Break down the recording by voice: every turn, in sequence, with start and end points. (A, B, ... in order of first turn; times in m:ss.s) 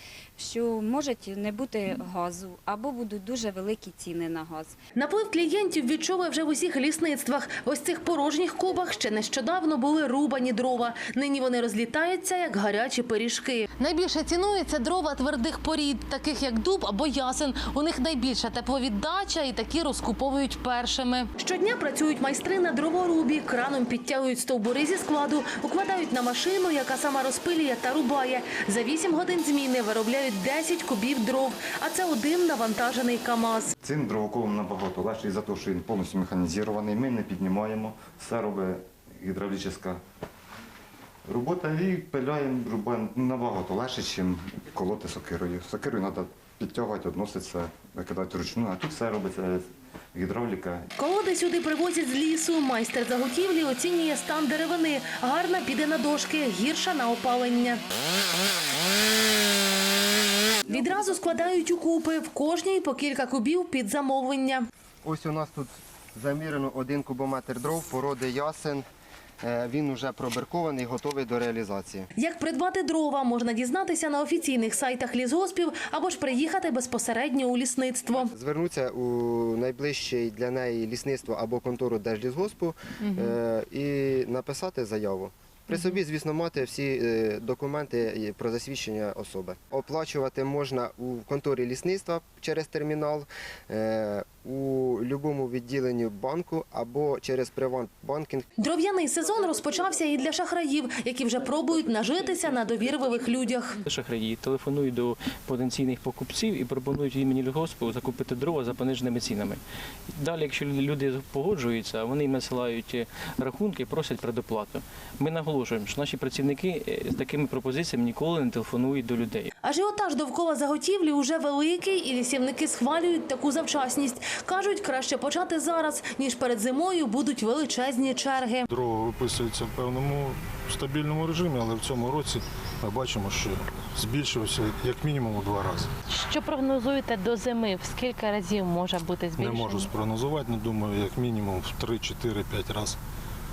0:00.4-0:04.7 A
0:05.0-0:33.7 B
0:33.8-0:40.0 C
0:41.3-0:50.9 C
0:51.0-0:57.8 B
1:00.7-1:04.7 B
1:00.7-1:01.3 D
1:05.0-1:08.8 D
1:09.4-1:12.1 D
1:12.2-1:18.3 B
1:18.3-1:38.5 D
1:38.6-1:43.8 B
1:43.8-1:49.6 E
1:50.2-1:59.5 E
1:59.6-2:08.7 B
2:08.7-2:15.9 F
2:16.1-2:19.9 G
2:19.4-2:23.0 F